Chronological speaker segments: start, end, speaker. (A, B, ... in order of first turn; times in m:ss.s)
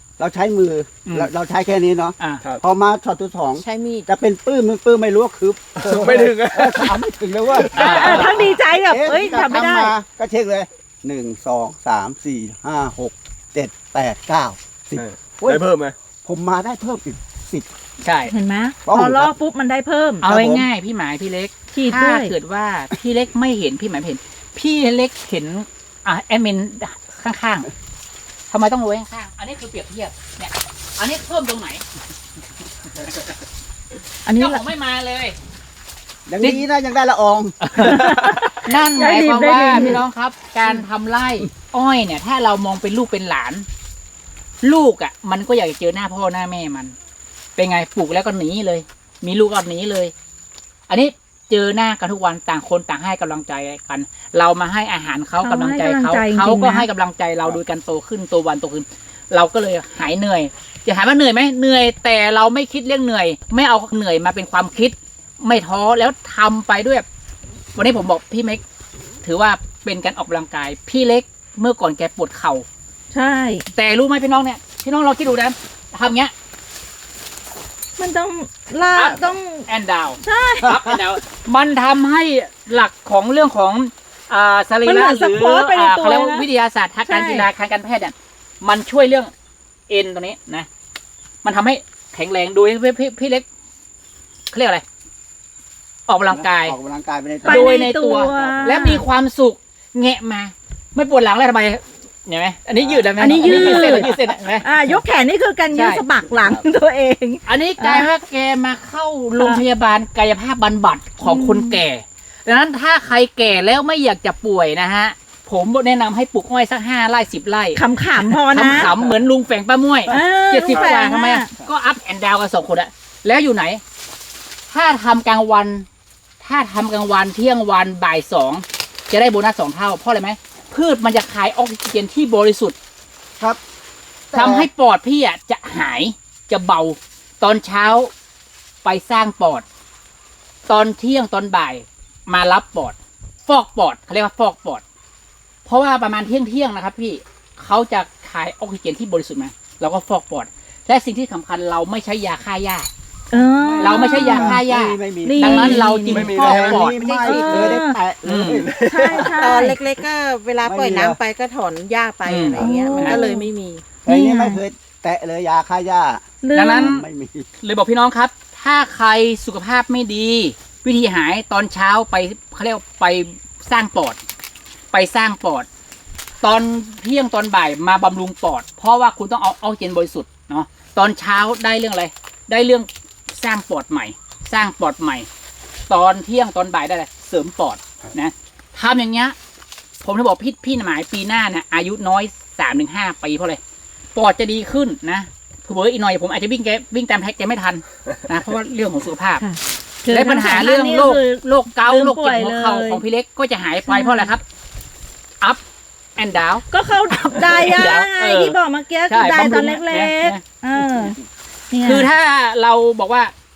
0:00.2-0:15.6 A
0:01.0-0:01.3 B
0:03.6-0:04.1 C
0:05.8-0:07.0 D
0:07.5-0:08.2 D
0:07.7-0:08.4 B
0:07.8-0:09.9 E
0:15.0-0:15.9 D
0:16.2-0:17.7 A
0:18.0-0:18.3 B
0:18.3-0:20.2 E
0:18.8-0:19.3 A
0:20.2-0:27.7 B
0:20.2-0:20.7 A
0:21.7-0:22.3 E
0:28.5-0:31.8 B
0:34.2-0:34.6 E
0:34.4-0:35.4 B
0:36.3-0:37.6 A
0:37.6-0:43.7 B
0:37.8-0:40.0 E
0:44.6-0:46.9 B
0:47.6-0:50.1 B
0:50.9-1:07.0 B
0:55.4-0:56.9 E
1:07.7-1:08.6 B
1:09.2-1:12.6 B
1:13.1-1:13.7 E
1:13.7-1:16.3 B
1:18.0-1:19.6 E
1:18.9-1:29.3 B
1:20.2-1:20.7 E
1:20.6-1:20.9 A
1:24.8-1:26.4 E
1:27.1-1:27.5 E
1:29.9-1:30.7 B
1:31.4-1:33.4 B
1:34.5-1:34.8 B
1:36.1-1:36.8 B
1:36.3-1:38.9 A
1:37.4-1:39.0 E
1:37.4-1:45.0 B
1:42.8-1:44.2 A
1:43.2-1:44.1 E
1:44.6-1:48.1 E
1:45.7-1:46.0 B
1:47.4-2:03.8 B
1:51.2-1:51.8 E
1:57.7-1:58.9 E
2:00.1-2:01.5 E
2:04.7-2:05.8 B
2:06.4-2:12.7 B
2:14.3-2:14.7 A
2:14.3-2:18.1 B
2:18.8-2:19.6 B
2:20.7-2:24.8 B
2:25.6-2:32.9 B
2:33.3-2:34.6 E
2:33.3-2:39.2 A
2:33.8-2:38.7 B
2:35.2-2:38.0 E
2:36.1-2:36.8 D
2:37.2-2:37.7 C
2:38.6-2:39.4 D
2:38.9-2:39.8 E
2:39.3-2:43.8 C
2:40.6-2:41.2 A
2:42.2-2:43.2 B
2:42.6-2:43.5 E
2:44.0-2:47.5 A
2:44.1-2:44.6 E
2:46.4-2:46.9 E
2:46.5-2:47.0 B
2:47.6-2:54.2 B
2:54.9-2:55.7 B
2:56.4-3:05.3 B
3:05.9-3:09.4 B
3:10.0-3:13.6 B
3:14.1-3:19.4 B
3:19.4-3:23.0 E
3:20.1-3:24.4 B
3:23.8-3:24.3 E
3:26.2-3:28.6 B
3:26.7-3:31.2 E
3:29.1-3:30.4 B
3:30.8-3:31.1 A
3:31.7-3:32.1 E
3:31.8-3:33.3 B